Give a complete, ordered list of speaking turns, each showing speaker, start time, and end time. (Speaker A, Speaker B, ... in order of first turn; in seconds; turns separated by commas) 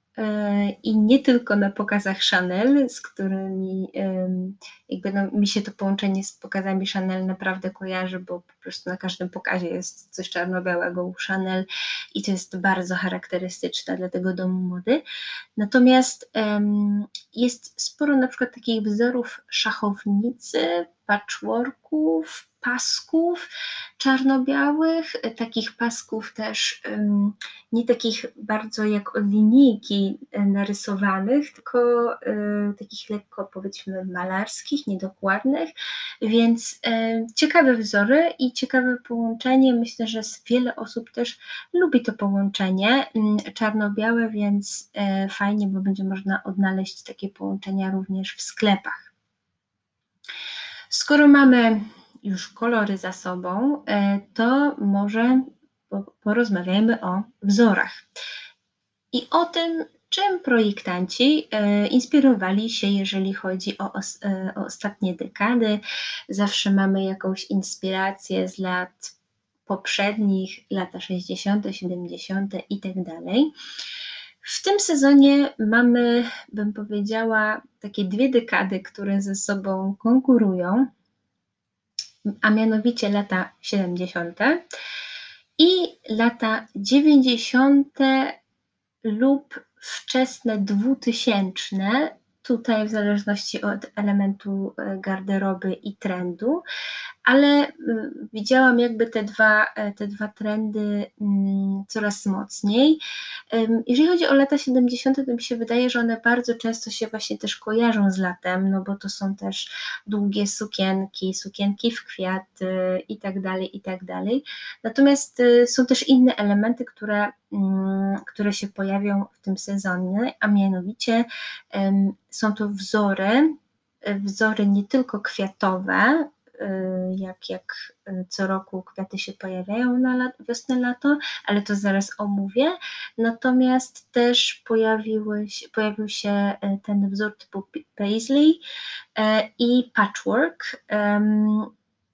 Speaker A: 0.1-15.0, Speaker A: 15.6-49.1, Speaker A: 50.9-58.0, Speaker A: 59.1-69.1, Speaker A: 69.7-73.5, Speaker A: 74.4-80.9, Speaker A: 82.4-84.6, Speaker A: 85.6-88.4, Speaker A: 89.0-96.6, Speaker A: 97.2-103.0, Speaker A: 103.5-138.6, Speaker A: 139.2-141.7